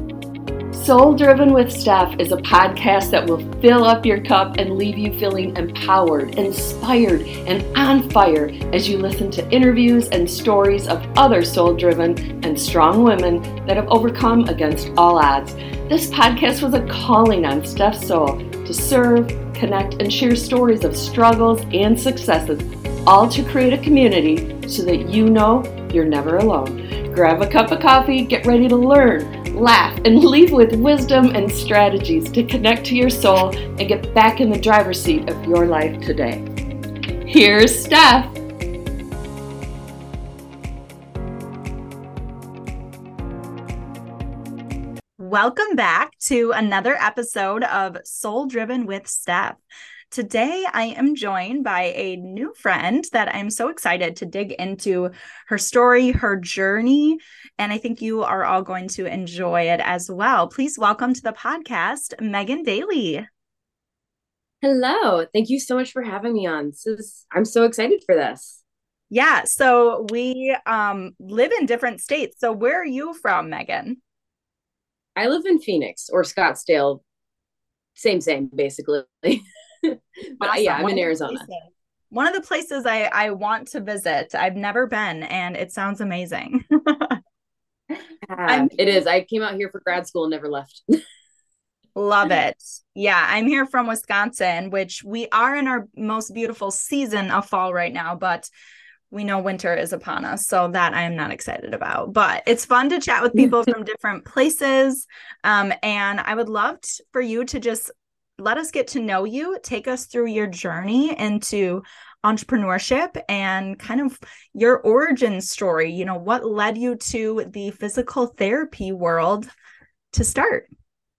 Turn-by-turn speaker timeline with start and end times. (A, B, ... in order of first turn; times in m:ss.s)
0:00.7-0:36.4 A
0:37.3-0:38.4 A
0:45.2-0:49.6 B
0:50.1-1:03.2 B
1:04.6-1:08.6 C
1:09.1-1:14.0 B
1:15.2-1:17.0 C
1:18.0-1:21.4 C
1:20.4-1:27.2 B
1:28.3-1:30.8 C
1:28.5-1:28.7 B
1:32.0-1:38.5 B
1:39.1-1:59.5 B
2:00.1-2:00.7 B